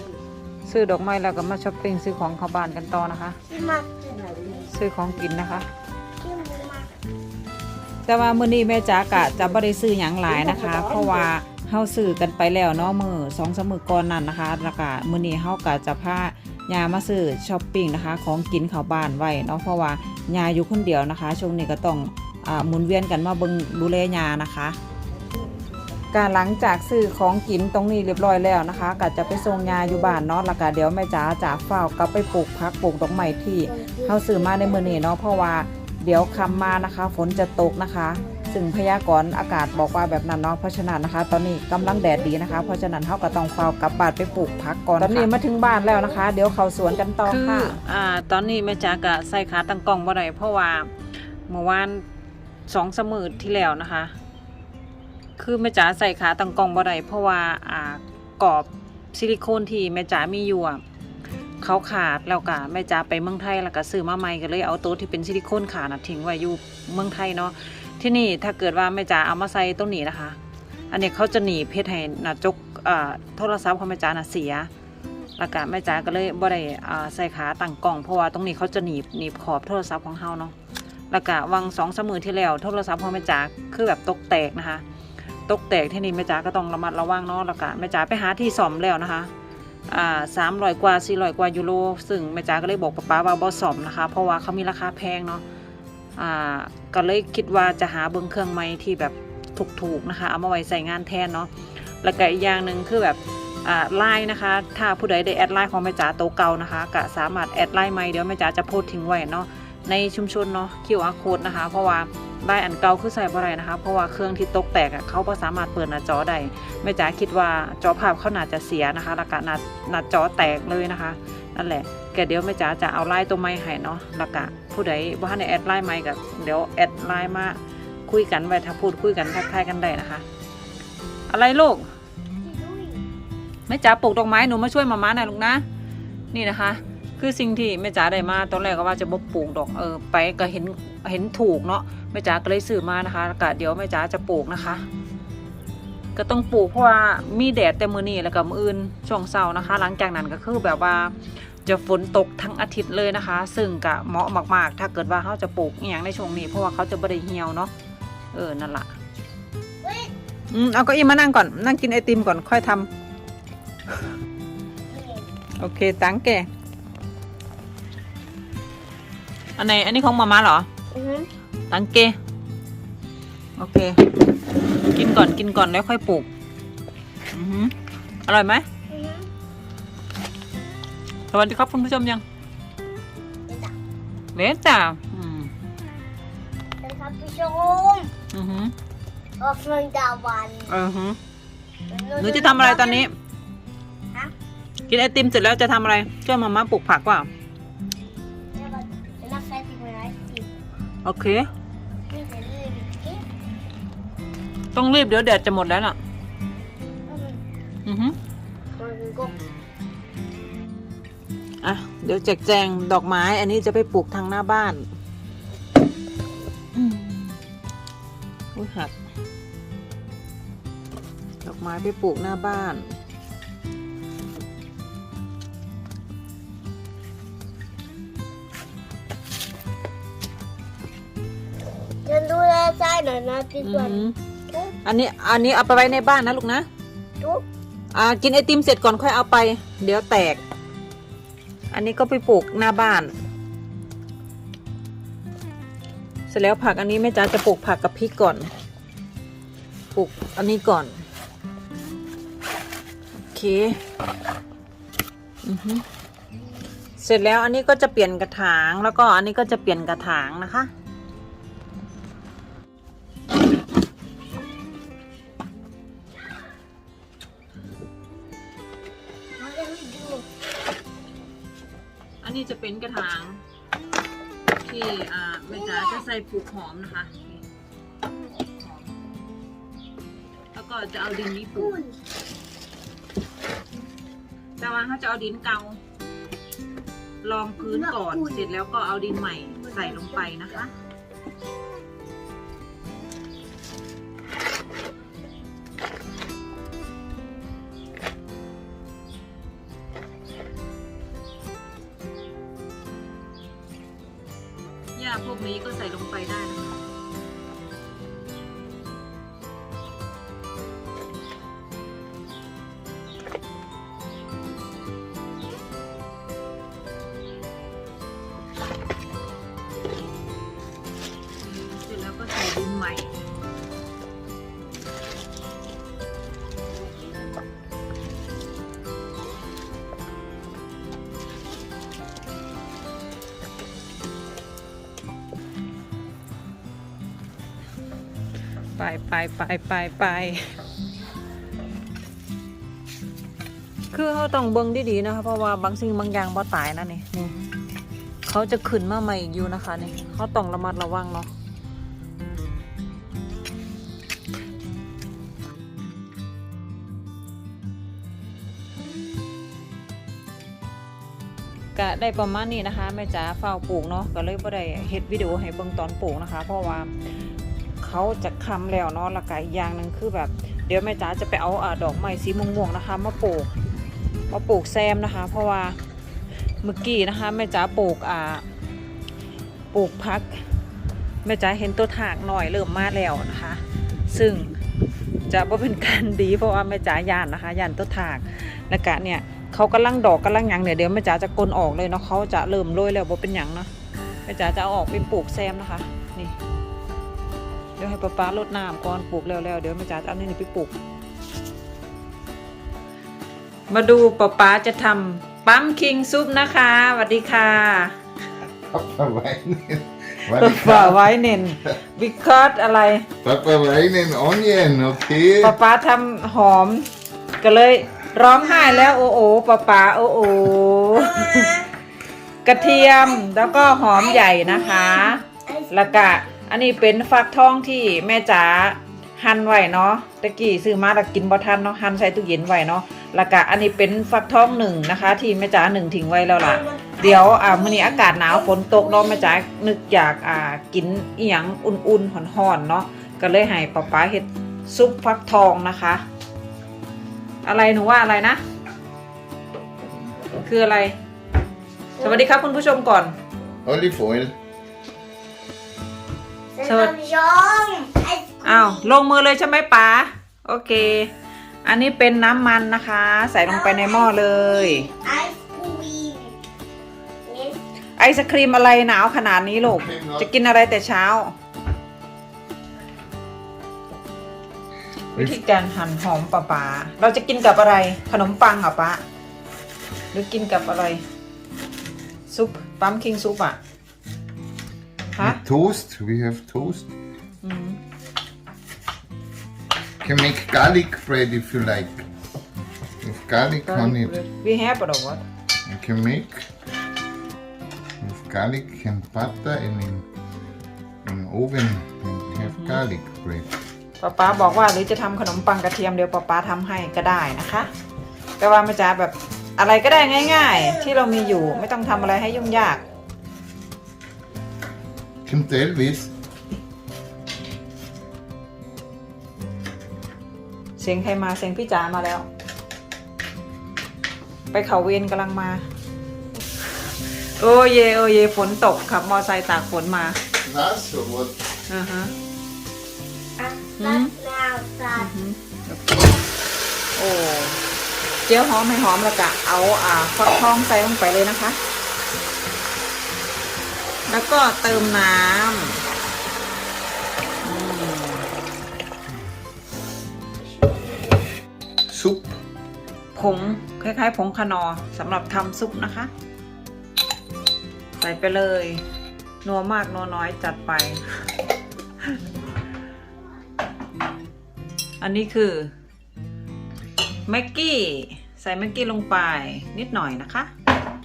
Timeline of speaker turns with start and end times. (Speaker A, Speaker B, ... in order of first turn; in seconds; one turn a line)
Speaker A: 0.7-3.4
Speaker B: 3.5-4.7
Speaker A: 4.7-5.7
Speaker B: 6.2-6.9
Speaker A: 8.1-24.8
Speaker A: 26.1-50.9
Speaker B: 29.5-30.1
Speaker B: 33.7-35.0
Speaker A: 51.5-52.0
Speaker A: 52.7-54.1
Speaker A: 55.4-60.8
Speaker A: 61.6-70.4
Speaker A: 70.9-74.7
Speaker A: 75.4-80.5
Speaker A: 81.1-84.8
Speaker A: 85.5-89.3
Speaker A: 89.9-95.4
Speaker A: 96.2-101.5
Speaker A: 102.0-130.2
Speaker A: 131.3-131.9
Speaker B: 132.4-133.0
Speaker A: 133.7-135.6
Speaker A: 136.3-144.8
Speaker A: 146.2-151.1
Speaker A: 151.7-157.7
Speaker A: 158.3-158.9
Speaker B: 159.8-160.1
Speaker A: 160.5-162.9
Speaker B: 164.9-165.3
Speaker A: 165.6-166.5
Speaker A: 169.6-170.7
Speaker B: 170.9-171.3
Speaker A: 171.7-172.2
Speaker A: 173.6-174.0
Speaker A: 174.9-176.3
Speaker A: 177.3-177.7
Speaker A: 178.3-178.7
Speaker B: 178.9-179.3
Speaker A: 181.3-182.2
Speaker B: 183.5-183.7
Speaker A: 184.3-185.5
Speaker B: 186.8-188.1
Speaker A: 188.3-188.7
Speaker B: 189.4-190.7
Speaker A: 190.7-191.2
Speaker B: 191.9-193.1
Speaker A: 192.2-193.1
Speaker A: 194.9-197.3
Speaker B: 198.6-200.5
Speaker A: 201.1-201.5
Speaker B: 202.1-203.2
Speaker A: 204.7-206.0
Speaker B: 207.1-207.4
Speaker A: 207.9-208.2
Speaker B: 208.8-209.4
Speaker A: 211.6-214.8
Speaker A: 216.7-217.4
Speaker A: 218.6-218.9
Speaker A: 221.4-222.8
Speaker B: 232.1-234.7
Speaker A: 233.6-234.2
Speaker A: 234.8-236.7
Speaker A: 237.9-240.4
Speaker A: 241.7-243.1
Speaker A: 246.3-248.5
Speaker A: 249.9-251.0
Speaker A: 253.3-253.8
Speaker A: 255.4-255.8
Speaker A: 257.0-260.7
Speaker B: 269.4-270.2
Speaker A: 272.2-273.4
Speaker A: 274.6-277.4
Speaker B: 275.5-276.0
Speaker A: 278.6-278.9
Speaker A: 280.5-281.8
Speaker B: 281.6-282.0
Speaker A: 284.6-285.8
Speaker A: 287.2-290.7
Speaker B: 287.6-288.5
Speaker B: 289.5-290.3
Speaker A: 305.0-306.8
Speaker A: 321.4-323.2
Speaker A: 338.8-340.5
Speaker A: 343.9-347.3
Speaker A: 348.2-351.3
Speaker A: 361.8-366.9
Speaker A: 367.8-373.5
Speaker A: 374.3-375.8
Speaker A: 376.6-378.4
Speaker A: 379.7-380.4
Speaker A: 381.2-384.5
Speaker A: 385.3-393.7
Speaker A: 394.3-396.4
Speaker A: 397.8-400.7
Speaker A: 403.7-408.0
Speaker C: 408.7-411.1
Speaker A: 410.3-413.1
Speaker C: 413.2-415.6
Speaker A: 415.4-416.9
Speaker A: 417.4-421.6
Speaker B: 418.3-418.9
Speaker B: 420.9-421.7
Speaker A: 422.4-446.0
Speaker B: 422.5-425.9
Speaker B: 436.4-439.4
Speaker A: 447.4-448.4
Speaker A: 450.4-451.0
Speaker A: 452.0-453.1
Speaker C: 453.6-454.4
Speaker B: 456.6-458.9
Speaker A: 456.7-456.9
Speaker A: 458.4-461.1
Speaker A: 461.6-464.9
Speaker B: 463.5-466.4
Speaker B: 467.3-467.6
Speaker A: 468.0-471.3
Speaker C: 469.7-470.3
Speaker A: 475.1-479.0
Speaker A: 480.1-481.0
Speaker A: 482.3-483.6
Speaker C: 485.2-486.9
Speaker A: 487.4-487.8
Speaker C: 490.0-492.1
Speaker C: 493.0-494.1
Speaker A: 493.7-495.2
Speaker C: 495.7-496.5
Speaker C: 498.0-500.1
Speaker C: 501.0-503.5
Speaker A: 502.4-502.8
Speaker A: 504.0-507.7
Speaker A: 508.4-512.8
Speaker B: 510.4-511.8
Speaker C: 515.3-516.1
Speaker A: 520.8-522.3
Speaker A: 524.5-525.6
Speaker A: 527.1-530.2
Speaker C: 530.4-531.4
Speaker A: 531.7-532.1
Speaker B: 533.4-535.1
Speaker A: 533.8-534.1
Speaker A: 534.9-536.2
Speaker A: 537.0-537.6
Speaker A: 538.2-541.6
Speaker A: 544.1-545.8
Speaker A: 547.4-548.3
Speaker C: 551.9-552.4
Speaker A: 553.1-556.1
Speaker A: 558.0-558.8
Speaker A: 559.4-561.0
Speaker A: 565.0-565.7
Speaker A: 567.3-570.5